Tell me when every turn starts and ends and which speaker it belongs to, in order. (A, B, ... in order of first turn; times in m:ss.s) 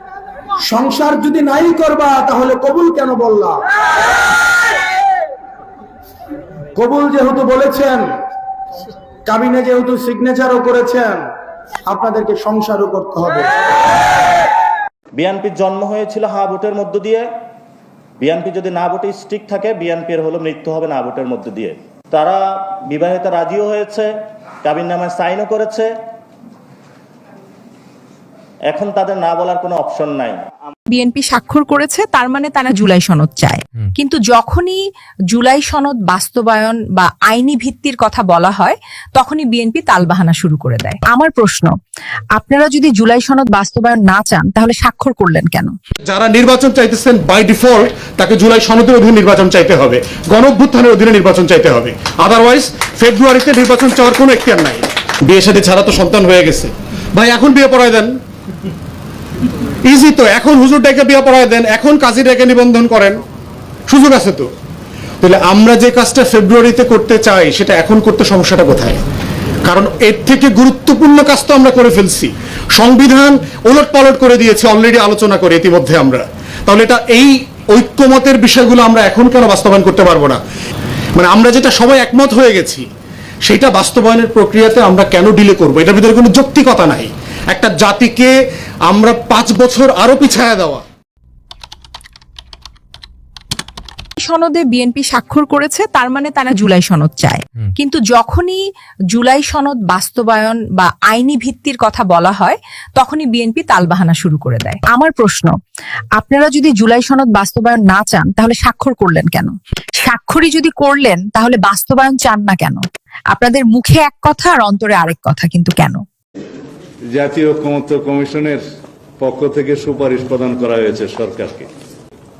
0:00.6-0:03.6 A
0:06.7-0:08.0 A
0:09.2-0:11.2 A
0:11.9-0:13.5 A
0:15.2-0:17.2 B
0:18.2-0:24.1 B
0:24.6-0:25.9 B
0:28.7-0:30.4 B
0:30.9-0:41.7 C
0:42.3-0:45.7 C
0:46.0-0:58.2 D
0:59.8-1:03.2 D
1:03.9-1:04.5 D
1:05.2-1:09.0 D
1:09.7-1:20.4 D
1:21.2-1:22.9 D
1:23.4-1:30.8 D
1:34.2-1:45.6 C
1:46.2-1:56.0 C
1:57.1-1:58.6 E
1:59.2-2:01.7 E